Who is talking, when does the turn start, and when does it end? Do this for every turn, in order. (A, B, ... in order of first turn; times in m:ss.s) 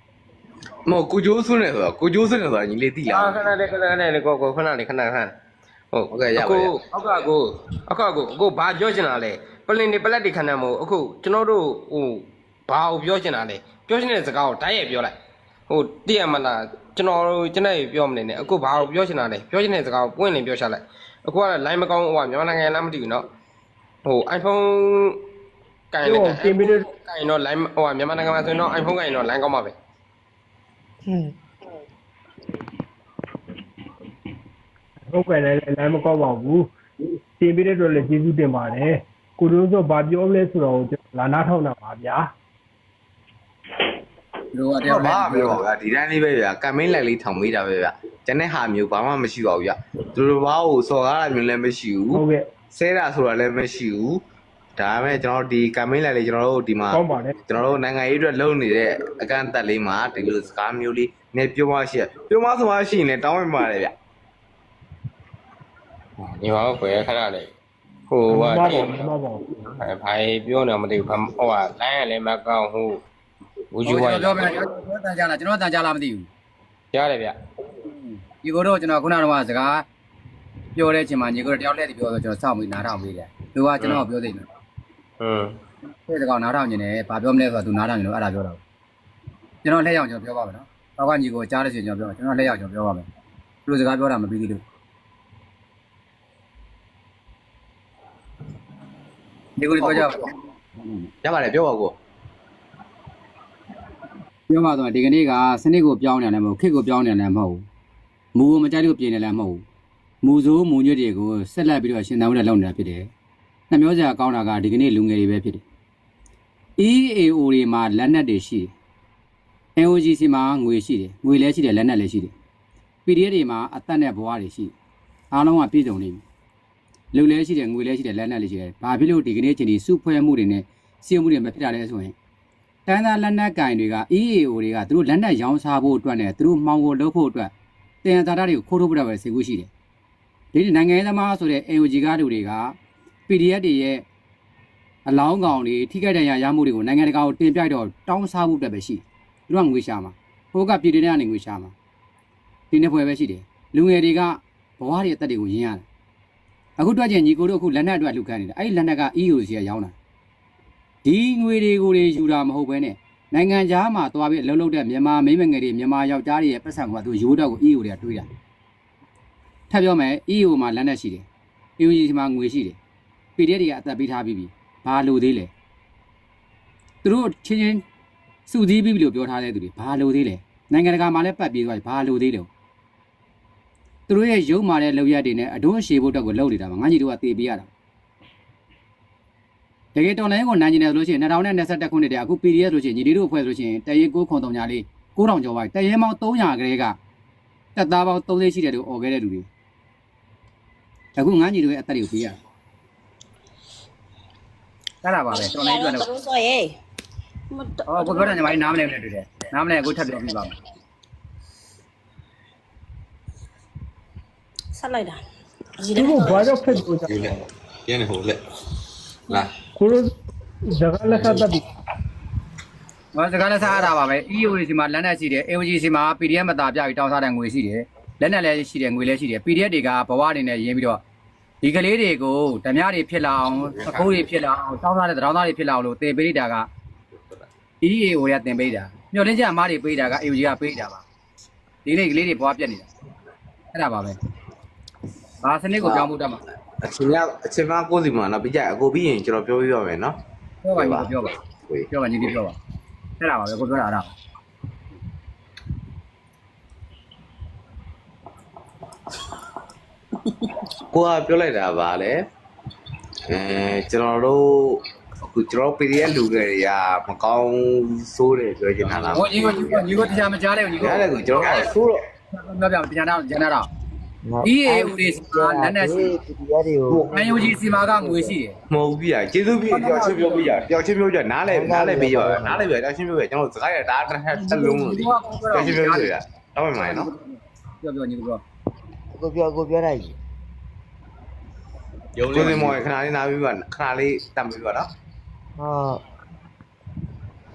0:00.9-0:03.6 A
0:03.1-0:05.3 B
0:05.9-0:15.2 B
0:06.1-0:06.7 A
0:15.7-0:23.2 B
0:24.1-0:25.2 B
0:25.9-0:29.8 B
0:26.0-0:26.9 C
0:35.1-0:36.7 C
0:37.4-0:42.3 C
0:44.5-0:45.6 D
0:44.9-0:54.2 A
0:52.1-0:52.4 C
0:54.8-1:03.9 A
0:56.9-0:57.3 C
1:06.2-1:07.5 B
1:08.1-1:13.0 B
1:08.3-1:09.4 C
1:13.7-1:14.6 B
1:13.9-1:16.3 D
1:16.9-1:17.4 B
1:17.8-1:19.8 D
1:20.8-1:24.5 D
1:23.8-1:24.1 B
1:25.2-1:25.5 B
1:26.1-1:28.6 D
1:29.6-1:33.1 D
1:33.7-1:34.6 D
1:39.6-1:41.1 D
1:39.8-1:40.2 A
1:41.2-1:42.0 A
1:44.5-1:47.6 D
1:48.4-1:49.6 D
1:50.2-1:53.1 D
1:53.7-1:55.6 D
1:56.8-1:58.7 D
1:59.8-2:02.3 D
2:03.0-2:04.7 D
2:05.3-2:06.2 D
2:07.1-2:12.2 D
2:12.9-2:17.5 D
2:18.0-2:19.7 D
2:20.5-2:22.8 D
2:23.3-2:24.0 D
2:25.0-2:31.7 D
2:32.7-2:35.8 D
2:36.8-2:39.9 D
2:41.0-2:48.3 D
2:49.7-2:51.3 D
2:51.8-2:52.8 D
2:53.4-2:55.5 D
2:57.0-2:57.8 D
2:58.5-3:02.5 D
3:04.1-3:07.7 D
3:09.9-3:17.0 D
3:17.8-3:19.5 D
3:21.2-3:22.4 D
3:25.0-3:26.1 D
3:25.4-3:26.8 E
3:27.5-3:28.4 E
3:27.9-3:30.6 D
3:34.7-3:35.2 E
3:35.8-3:36.2 E
3:35.9-3:37.3 C
3:39.8-3:40.1 C
3:40.7-3:41.7 C
3:43.1-3:51.0 D
3:51.6-3:56.7 D
3:57.8-4:01.0 D
4:01.8-4:02.9 D
4:03.7-4:04.2 D
4:05.4-4:06.4 D
4:05.8-4:06.1 A
4:06.8-4:10.2 A
4:10.6-4:11.4 D
4:10.7-4:11.9 A
4:11.9-4:12.6 D
4:13.2-4:14.1 D
4:20.9-4:22.2 A
4:23.3-4:30.3 A
4:29.2-4:31.7 D
4:30.8-4:32.0 A
4:32.3-4:33.7 D
4:34.2-4:37.3 F
4:34.4-4:36.2 D
4:36.9-4:37.6 A
4:37.1-4:38.6 D
4:38.0-4:38.3 F
4:38.7-4:47.1 A
4:39.7-4:40.7 D
4:41.4-4:42.7 F
4:44.3-4:46.1 D
4:46.8-4:48.4 D
4:49.1-4:50.2 F
4:52.2-4:54.9 A
4:52.4-4:52.8 F
4:55.6-4:56.0 F